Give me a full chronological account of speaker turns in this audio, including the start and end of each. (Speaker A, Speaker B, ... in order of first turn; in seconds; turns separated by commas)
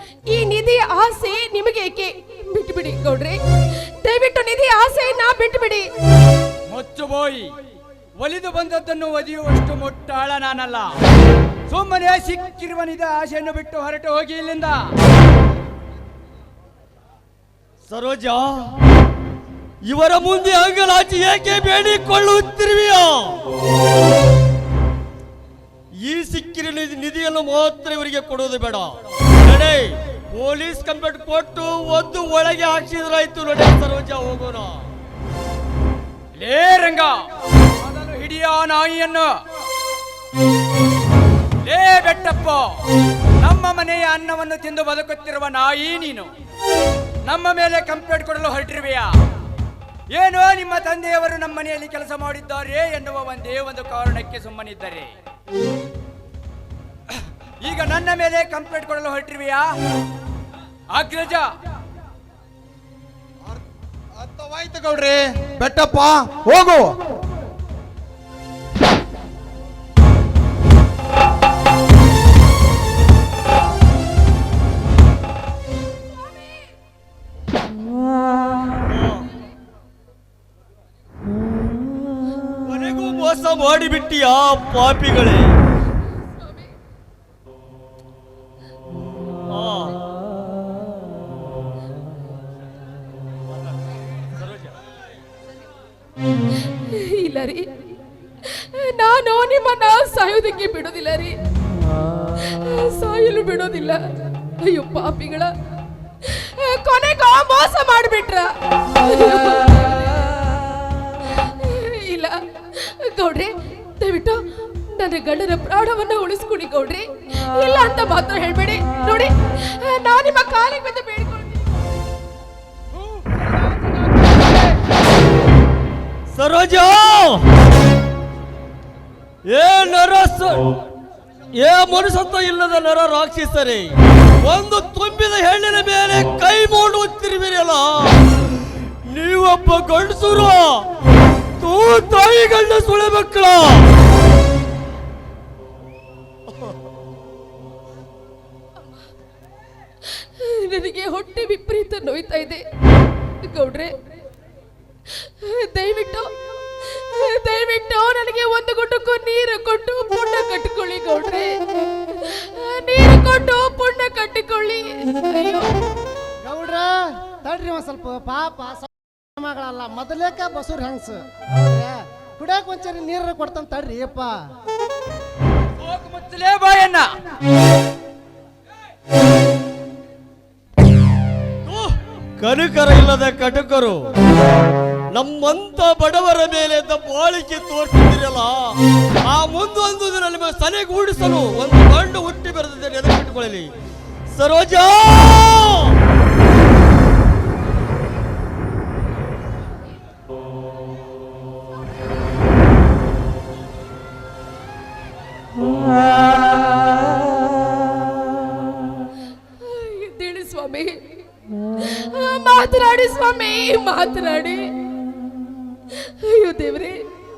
Speaker A: 0.3-5.9, Speaker B: 6.7-7.5, Speaker B: 8.2-10.9, Speaker B: 11.7-14.8, Speaker C: 17.9-18.7, Speaker C: 19.8-23.4, Speaker C: 26.0-34.9, Speaker B: 36.4-37.1, Speaker B: 37.8-39.3, Speaker B: 41.6-42.8, Speaker B: 43.4-46.3, Speaker B: 47.3-49.1, Speaker B: 50.1-55.1, Speaker B: 57.6-59.7, Speaker B: 60.9-61.5, Speaker D: 64.2-67.0, Speaker C: 78.8-79.3, Speaker C: 82.7-85.6, Speaker C: 89.5-90.0, Speaker C: 94.2-94.8, Speaker A: 96.9-97.7, Speaker A: 98.4-101.4, Speaker A: 102.3-104.0, Speaker A: 104.6-105.5, Speaker A: 106.2-110.4, Speaker A: 111.4-114.4, Speaker A: 115.0-121.7, Speaker B: 122.9-124.6, Speaker C: 126.3-127.5, Speaker C: 129.5-130.7, Speaker C: 131.5-138.4, Speaker C: 139.1-140.9, Speaker C: 141.6-143.9, Speaker C: 146.5-146.8, Speaker A: 150.1-152.6, Speaker A: 153.4-153.9, Speaker A: 155.1-165.7, Speaker E: 166.4-166.9, Speaker E: 167.4-174.4, Speaker B: 175.8-177.1, Speaker C: 181.7-184.1, Speaker C: 185.1-193.7, Speaker C: 194.3-196.0, Speaker A: 209.6-210.9, Speaker A: 211.8-214.6, Speaker A: 215.9-217.0